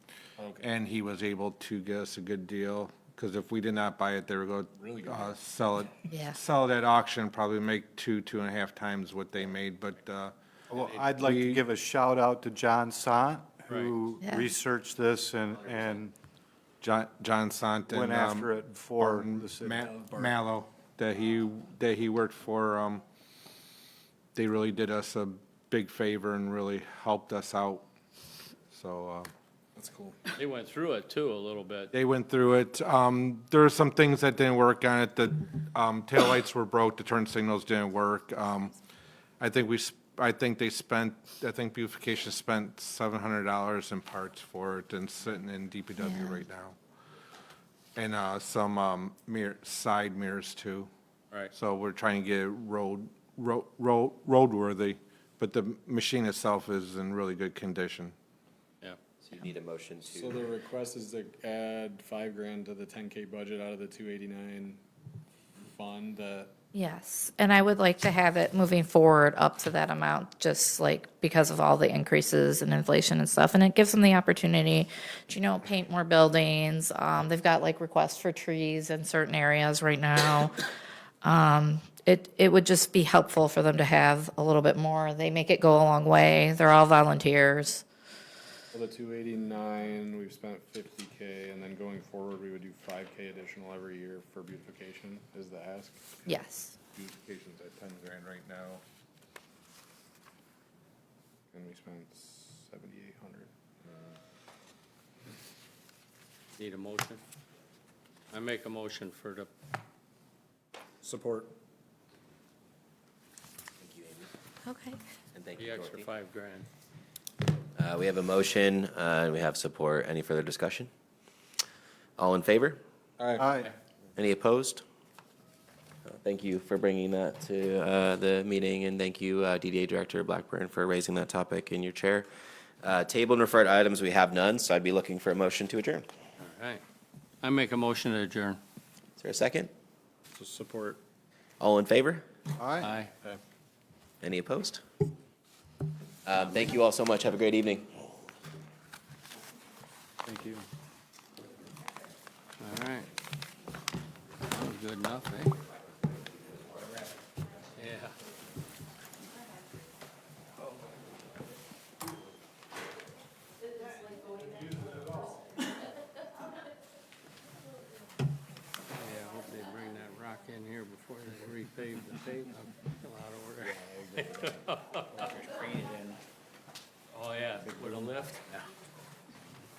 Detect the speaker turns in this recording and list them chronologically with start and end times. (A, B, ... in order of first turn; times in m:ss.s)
0:00.4-0:00.7 A
0:00.6-0:10.3 B
0:04.8-0:05.3 A
0:06.1-0:06.4 C
0:10.7-0:16.1 D
0:11.2-0:11.6 B
0:16.8-0:23.0 B
0:17.9-0:20.3 D
0:24.3-0:27.8 B
0:28.7-0:29.3 B
0:29.8-0:30.2 A
0:30.3-0:31.9 E
0:31.9-0:38.7 B
0:39.4-0:46.8 B
0:46.0-0:46.4 C
0:47.9-0:50.9 B
0:51.5-0:58.1 B
0:59.2-1:00.5 F
1:00.0-1:04.8 A
1:05.6-1:06.5 A
1:06.7-1:20.5 C
1:21.2-1:27.8 C
1:28.7-1:36.3 A
1:36.2-1:36.8 C
1:37.0-1:38.8 B
1:41.5-1:44.2 A
1:46.6-1:47.2 E
1:48.3-1:49.5 E
1:51.0-1:51.5 A
1:53.8-1:54.3 F
1:54.6-1:55.0 C
1:55.3-1:56.1 F
1:55.6-1:56.7 E
1:57.8-2:00.9 F
2:02.2-2:02.8 F
2:03.4-2:03.7 D
2:04.2-2:04.8 F
2:06.0-2:12.3 F
2:12.8-2:16.1 F
2:16.4-2:16.8 E
2:17.4-2:18.6 E
2:19.2-2:19.7 F
2:20.3-2:21.0 A
2:21.6-2:22.2 F
2:22.6-2:23.0 D
2:22.8-2:23.1 E
2:24.2-2:24.8 F
2:26.2-2:27.9 F
2:30.2-2:30.6 D
2:32.6-2:33.1 E
2:34.4-2:35.6 E
2:37.8-2:38.2 E
2:48.9-2:55.6 E
2:57.1-2:58.6 E